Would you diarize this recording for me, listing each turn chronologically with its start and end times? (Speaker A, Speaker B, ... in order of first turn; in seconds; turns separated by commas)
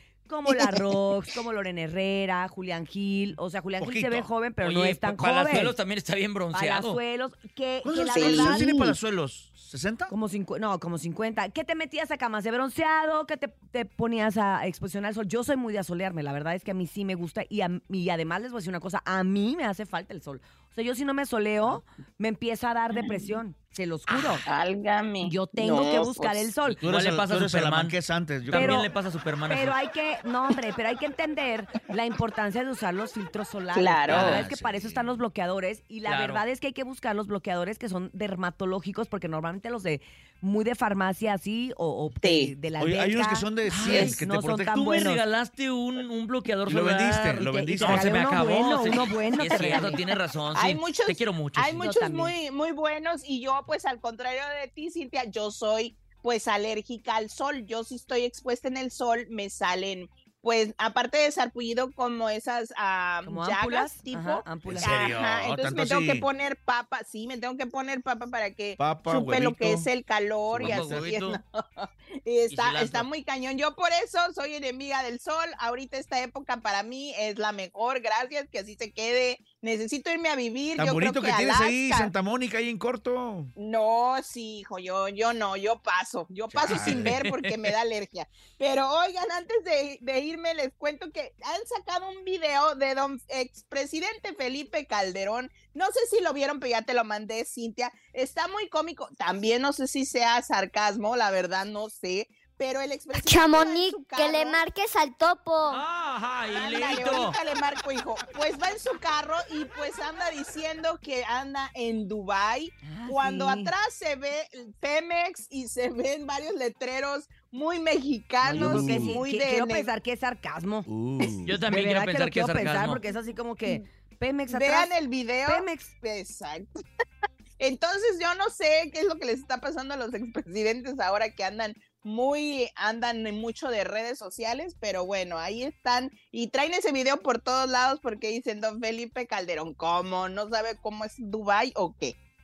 Speaker A: 0.3-5.8, Speaker B: 3.8-4.3, Speaker C: 4.6-7.0, Speaker A: 6.5-8.9, Speaker B: 7.8-10.1, Speaker D: 8.1-8.9, Speaker A: 10.1-24.4, Speaker D: 22.9-23.3, Speaker D: 24.1-26.5, Speaker A: 25.2-26.8, Speaker C: 26.6-29.8, Speaker B: 26.8-28.9, Speaker A: 28.5-28.9, Speaker A: 29.5-45.2, Speaker D: 33.7-34.4, Speaker B: 34.1-35.0, Speaker C: 36.0-36.4, Speaker D: 42.2-42.5, Speaker B: 42.8-45.0, Speaker C: 43.7-44.2, Speaker C: 44.8-51.9, Speaker B: 46.6-48.1, Speaker A: 47.4-50.0, Speaker D: 49.4-82.1, Speaker A: 51.8-52.3, Speaker A: 63.2-65.1, Speaker B: 64.7-66.2, Speaker B: 68.8-69.9, Speaker B: 70.5-71.1, Speaker C: 70.6-71.4, Speaker C: 72.5-73.1, Speaker B: 80.7-83.5, Speaker D: 83.5-104.7, Speaker B: 86.5-87.1, Speaker C: 86.6-87.7, Speaker E: 103.1-105.8, Speaker C: 105.7-107.3, Speaker D: 106.5-119.9, Speaker A: 112.8-113.7, Speaker A: 118.4-120.9, Speaker B: 118.4-119.2, Speaker B: 120.9-121.6, Speaker C: 121.4-123.0, Speaker A: 121.7-124.9, Speaker D: 124.5-126.8, Speaker A: 125.5-125.9, Speaker D: 127.6-142.2